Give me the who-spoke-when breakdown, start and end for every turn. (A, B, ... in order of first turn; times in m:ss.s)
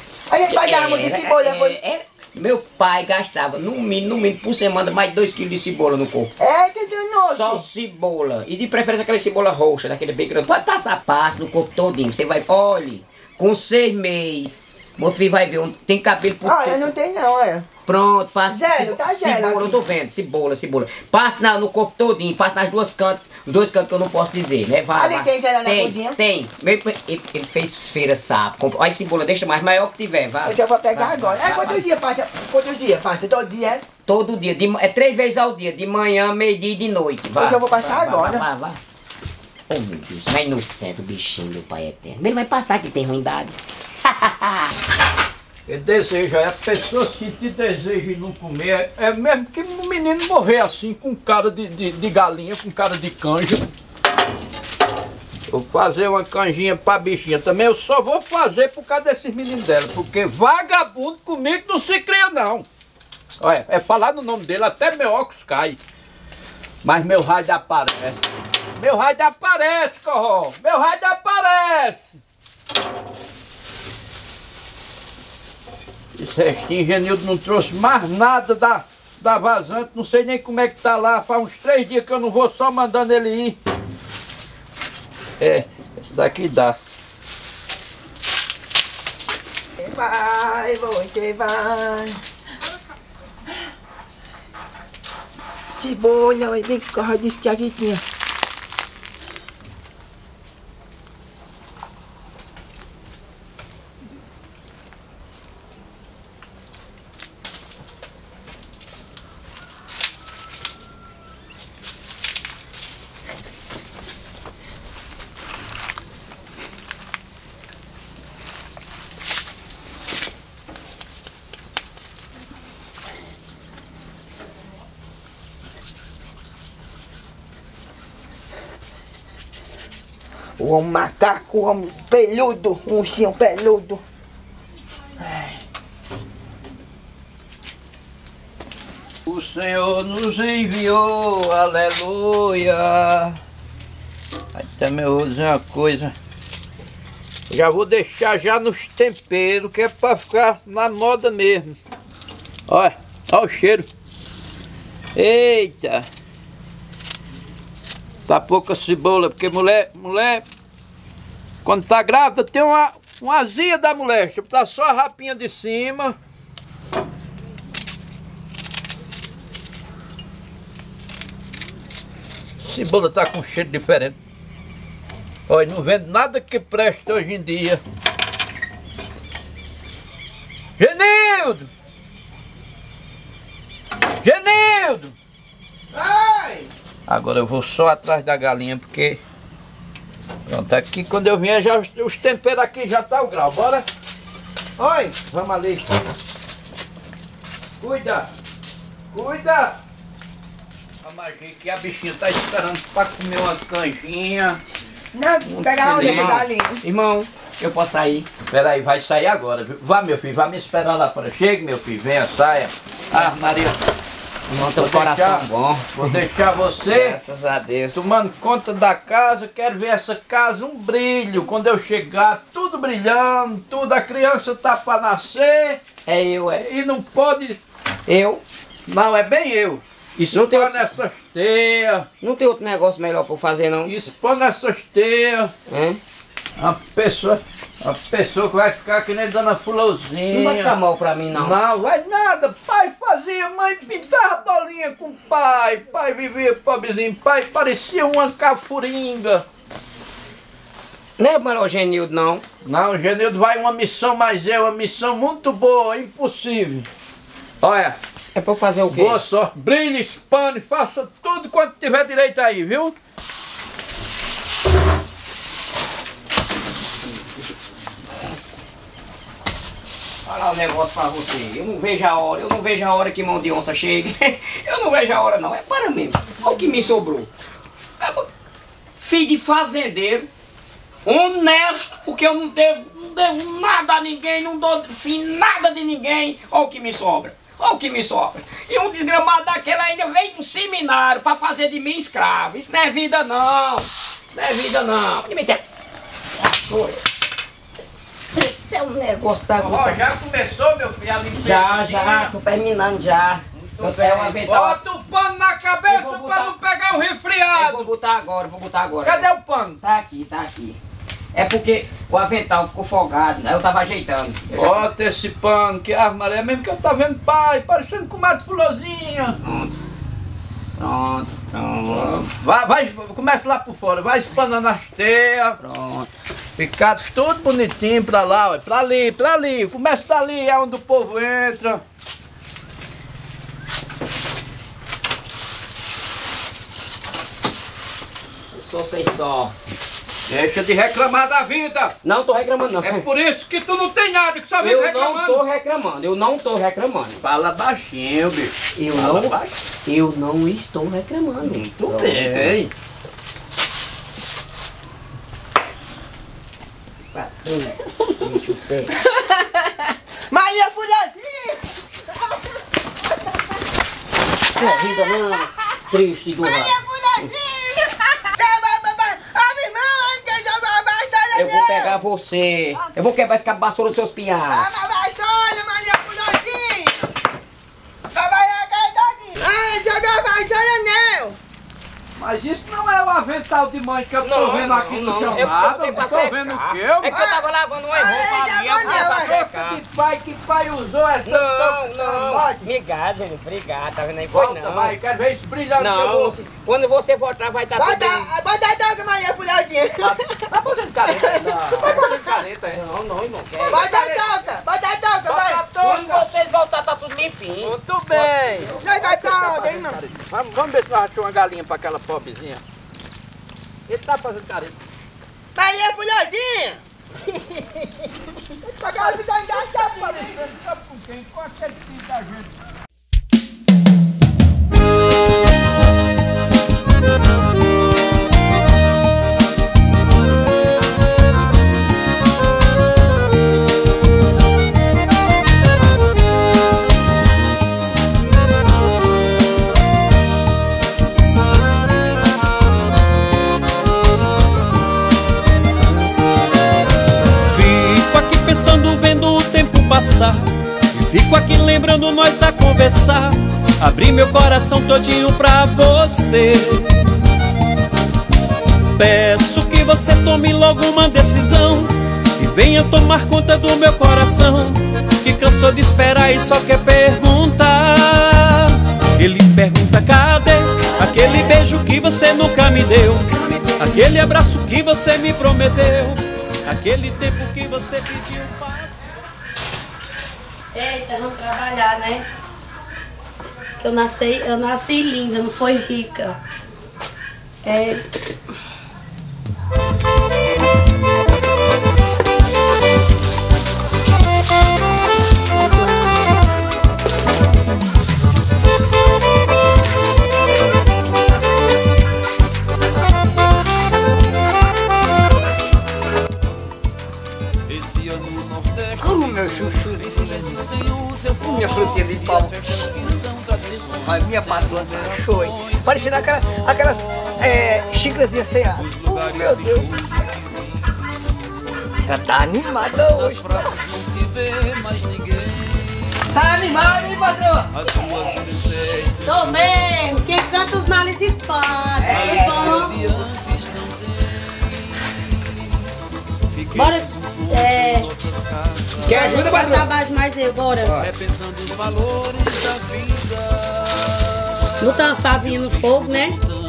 0:00.3-0:01.8 A
0:00.5-0:06.3 B
0:06.4-0:07.6 A
0:07.3-0:16.9 B
0:16.4-0:17.7 A
0:17.8-0:31.8 B
0:18.5-0:19.8 A
0:24.9-0:26.2 A
0:30.4-0:33.8 A
0:34.0-0:38.8 B
0:37.4-0:38.4 A
0:39.7-0:44.7 B
0:45.7-0:53.7 C
0:55.5-1:02.6 C
1:03.4-1:05.8 C
1:06.8-1:08.2 C
1:08.8-1:12.2 C
1:16.2-1:23.6 C
1:25.4-1:26.8 C
1:29.8-1:32.2 A
1:35.7-1:38.0 A
2:10.6-2:14.0 A
2:19.2-2:23.4 C
2:24.5-2:26.1 C
2:27.5-2:31.7 C
2:32.7-2:33.8 C
2:35.2-2:36.0 C
2:38.3-2:40.4 C
2:41.6-2:46.2 C
2:52.6-2:54.2 C
2:55.5-2:57.8 C
3:00.8-3:01.7 C
3:04.2-3:05.1 C
3:05.9-3:06.7 A
3:07.1-3:09.2 C
3:10.5-3:13.8 C
3:14.8-3:15.1 A
3:15.3-3:15.9 C
3:17.8-3:18.3 C
3:19.1-3:19.8 C
3:21.0-3:24.6 C
3:25.1-3:26.8 A
3:25.5-3:28.3 B
3:25.7-3:26.4 C
3:28.5-3:33.8 C
3:33.1-3:33.6 B
3:34.5-3:36.2 B
3:34.8-3:37.2 C
3:36.9-3:38.0 B
3:37.9-3:45.8 C
3:46.0-3:46.7 B
3:46.6-3:47.6 C
3:48.1-3:48.4 B
3:48.9-3:52.1 C
3:50.3-3:50.8 B
3:52.2-3:53.9 B
3:53.9-3:55.5 C
3:55.7-3:56.0 B
3:56.6-4:00.7 C
4:00.3-4:01.6 B
4:01.3-4:09.4 C
4:11.2-4:12.4 B
4:12.6-4:16.9 C
4:17.6-4:18.0 C
4:18.3-4:19.2 B
4:18.9-4:22.9 C
4:30.2-4:37.3 B
4:38.0-4:38.3 B
4:39.0-4:40.3 B
4:41.0-4:55.6 B
4:56.4-4:57.0 B
4:58.3-5:00.0 B
4:59.6-5:02.3 C
5:01.4-5:04.8 B
5:03.5-5:07.9 C
5:05.9-5:06.5 B
5:07.5-5:09.2 B
5:09.0-5:09.8 C
5:09.8-5:10.8 B
5:11.3-5:14.9 B
5:14.5-5:19.4 C
5:19.4-5:19.7 B
5:20.8-5:22.2 B
5:21.9-5:25.6 C
5:25.6-5:26.2 B
5:26.6-5:31.8 C
5:38.5-5:39.5 B
5:40.3-5:41.9 C
5:42.0-5:43.0 B
5:42.8-5:45.4 C
5:44.6-5:47.2 B
5:47.2-5:49.5 C
5:48.8-5:49.3 B
5:49.8-5:52.6 B
5:51.4-5:52.7 C
5:57.1-5:58.9 B
5:59.0-6:01.6 A
6:04.5-6:07.3 B
6:06.4-6:11.9 A
6:11.3-6:14.7 B
6:14.5-6:17.1 A
6:18.1-6:21.4 A
6:22.2-6:27.1 C
6:24.2-6:29.8 B
6:27.1-6:29.3 A
6:28.8-6:32.5 C
6:31.2-6:34.9 B
6:32.1-6:32.6 A
6:34.3-6:36.3 C
6:35.8-6:38.3 B
6:37.8-6:40.1 A
6:40.0-6:42.8 C
6:41.0-6:44.1 B
6:43.6-6:44.2 C
6:43.7-6:45.6 A
6:45.2-6:46.2 C
6:45.8-6:48.7 B
6:47.6-6:52.6 C
6:48.8-6:50.0 A
6:53.9-6:54.8 C
6:55.5-6:56.8 A
6:58.8-7:00.5 A
6:59.0-7:02.5 C
7:27.5-7:37.1 D
7:39.0-7:59.1 D
8:00.7-8:02.2 E
8:03.8-8:06.4 E
8:07.6-8:08.0 E
8:15.5-8:16.2 E
8:29.0-8:30.5 F
8:31.4-8:32.7 F
8:33.9-8:40.3 F
8:42.0-8:44.0 F
8:46.3-8:47.7 F
8:49.2-8:53.0 E
8:52.0-8:52.9 F
8:56.7-8:58.1 E
8:59.0-8:59.9 F
8:59.0-9:01.0 E
9:00.8-9:01.1 F
9:04.8-9:06.4 E